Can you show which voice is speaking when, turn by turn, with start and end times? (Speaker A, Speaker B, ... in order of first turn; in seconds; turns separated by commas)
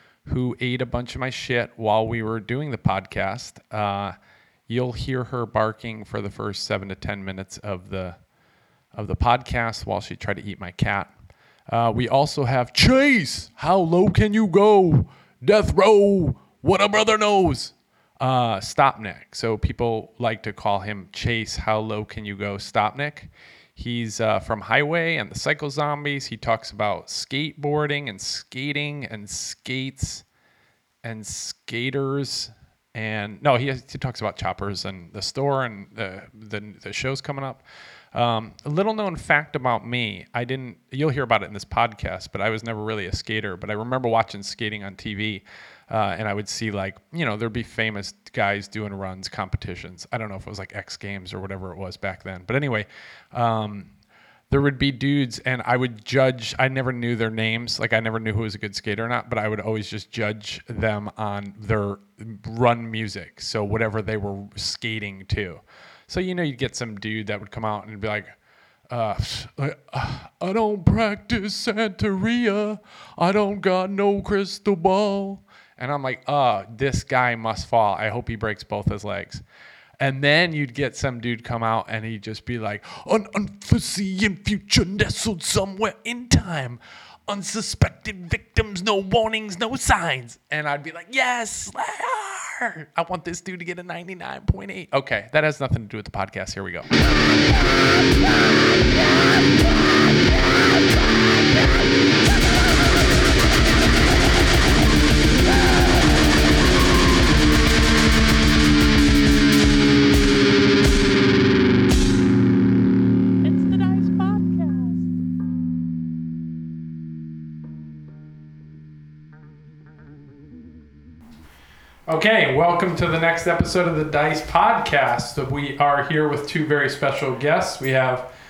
Speaker A: 0.2-4.1, Speaker A: 4.7-8.2, Speaker A: 8.9-11.1, Speaker A: 11.7-30.2, Speaker A: 31.0-53.9, Speaker A: 54.5-68.3, Speaker A: 68.9-79.4, Speaker A: 80.0-96.9, Speaker A: 113.4-115.0, Speaker A: 122.1-128.3